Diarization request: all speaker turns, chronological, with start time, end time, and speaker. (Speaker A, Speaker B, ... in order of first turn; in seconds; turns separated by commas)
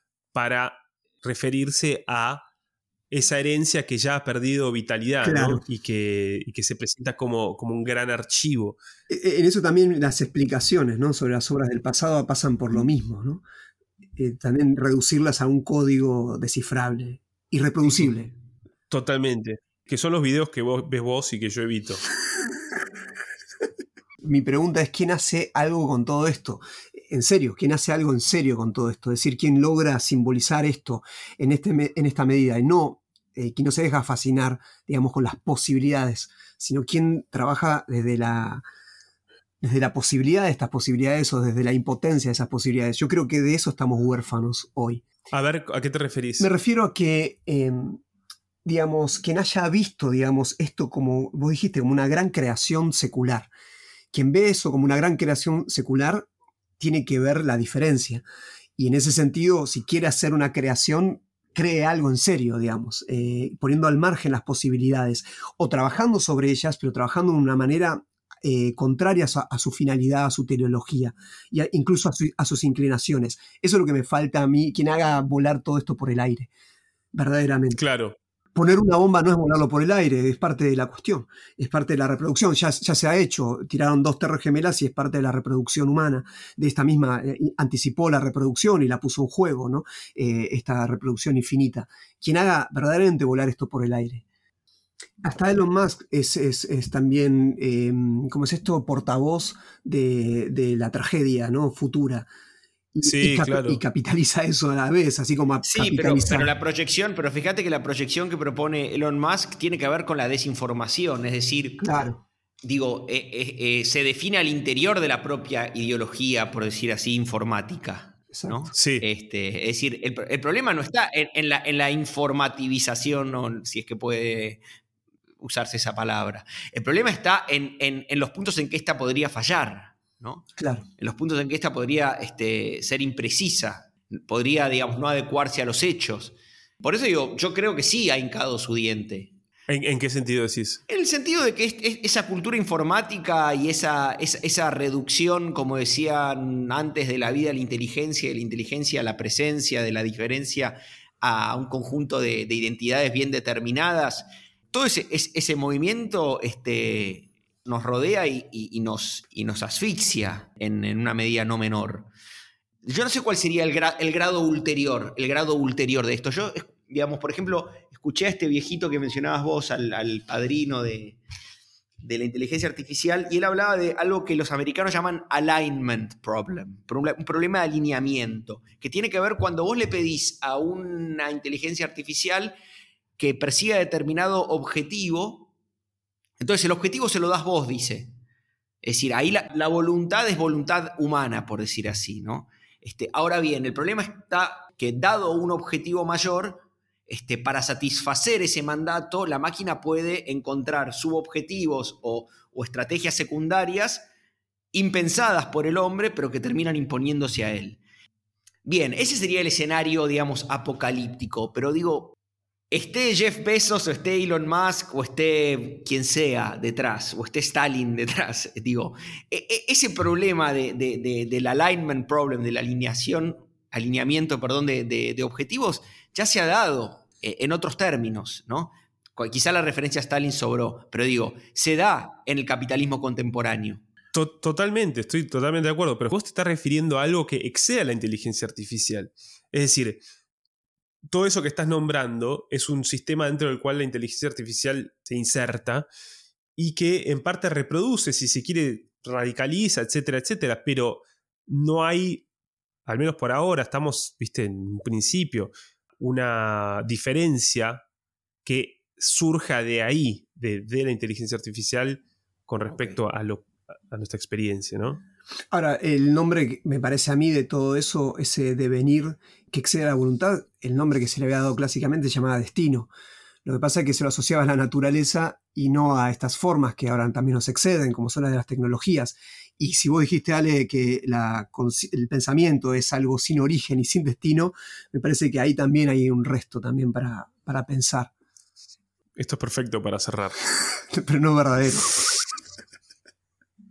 Speaker A: 0.3-2.4, Speaker A: 3.1-8.8, Speaker B: 5.2-5.6, Speaker B: 9.1-13.4, Speaker B: 14.2-18.3, Speaker A: 18.9-22.0, Speaker B: 24.2-38.6, Speaker B: 39.6-45.0, Speaker A: 45.3-46.5, Speaker B: 46.4-48.0, Speaker B: 48.6-53.5, Speaker B: 54.1-58.2, Speaker B: 58.8-76.5, Speaker B: 77.1-77.8, Speaker A: 77.7-78.2, Speaker B: 78.5-94.2, Speaker B: 95.2-102.3, Speaker B: 102.9-106.5, Speaker A: 103.0-103.8, Speaker C: 105.7-111.8, Speaker B: 111.8-112.2, Speaker C: 112.6-124.6, Speaker B: 118.3-118.6, Speaker A: 118.7-119.0, Speaker C: 125.4-139.3, Speaker B: 130.6-130.8, Speaker A: 139.7-140.8, Speaker C: 140.9-162.1, Speaker C: 162.8-171.2, Speaker C: 172.0-182.5, Speaker C: 183.2-185.5, Speaker C: 186.4-188.1, Speaker C: 188.8-204.1, Speaker C: 204.7-207.8, Speaker C: 208.6-212.2, Speaker C: 212.7-233.8, Speaker A: 234.1-240.0, Speaker A: 241.1-245.9, Speaker A: 246.6-252.2, Speaker A: 252.8-257.8, Speaker A: 258.4-265.0, Speaker B: 265.5-272.9, Speaker B: 273.4-288.1, Speaker A: 289.2-290.4, Speaker B: 290.9-292.0